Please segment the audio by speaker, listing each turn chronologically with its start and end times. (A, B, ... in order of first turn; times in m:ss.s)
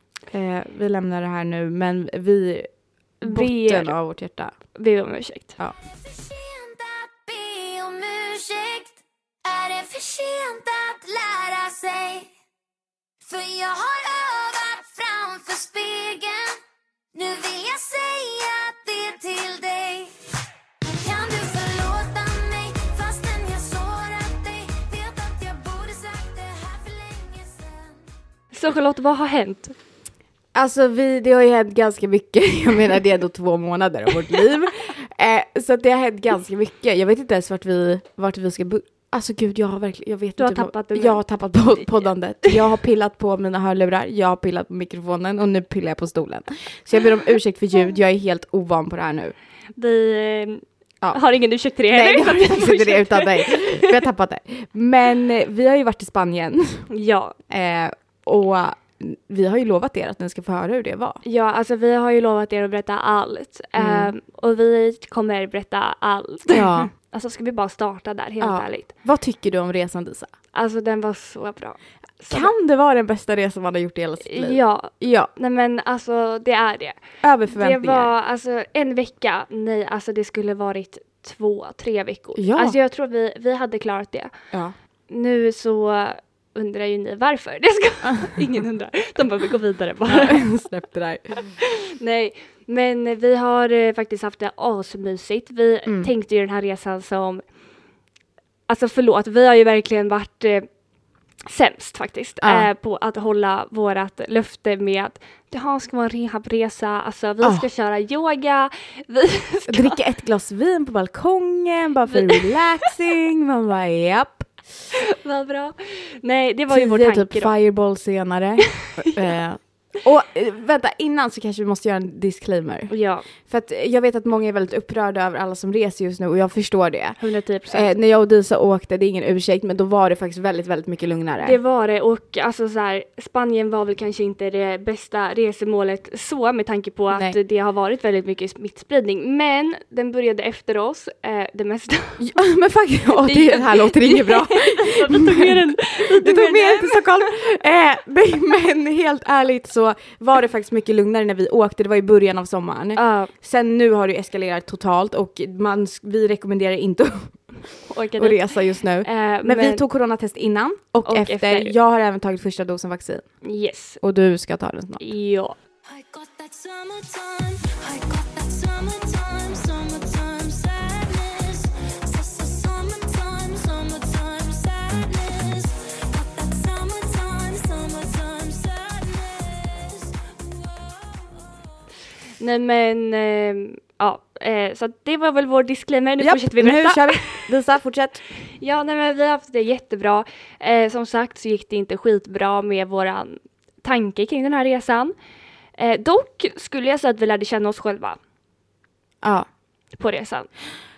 0:00.3-0:04.5 A
0:03.2-0:03.9 B
0:04.7-0:05.5 B
0:05.8-0:12.3 C
0:13.2-0:16.6 C
0:17.1-0:20.1 C
0:20.8-0:28.0 C
0:28.5-0:29.7 B
0:30.5-0:49.3 A
0:40.4-0:41.2 B
0:49.8-0:53.9 B
0:51.9-0:56.9 A
0:56.9-0:57.4 B
0:57.5-1:01.2 A
1:01.2-1:08.9 B
1:03.8-1:04.1 A
1:06.5-1:06.9 A
1:08.4-1:10.3 A
1:10.5-1:12.5 B
1:12.3-1:15.3 A
1:14.2-1:24.3 B
1:17.2-1:18.1 A
1:22.4-1:22.8 A
1:25.1-1:30.5 B
1:30.1-1:31.3 A
1:31.6-1:37.4 B
1:38.7-1:40.7 B
1:41.4-1:50.0 B
1:42.4-1:42.7 A
1:49.7-1:54.5 A
1:52.1-1:52.6 B
1:55.0-1:57.5 B
1:56.7-2:11.6 A
1:58.8-1:59.1 B
2:02.9-2:03.2 B
2:07.2-2:07.9 B
2:11.4-2:22.3 B
2:22.2-2:37.5 A
2:23.2-2:27.2 B
2:32.9-2:33.3 B
2:37.9-2:39.8 B
2:38.2-2:43.4 A
2:41.0-2:41.7 B
2:43.4-2:44.0 B
2:44.0-2:45.0 A
2:45.0-2:45.6 B
2:45.8-3:01.7 C
3:02.4-3:07.5 B
3:06.2-3:08.2 A
3:08.6-3:15.1 B
3:15.8-3:18.2 B
3:20.0-3:20.5 B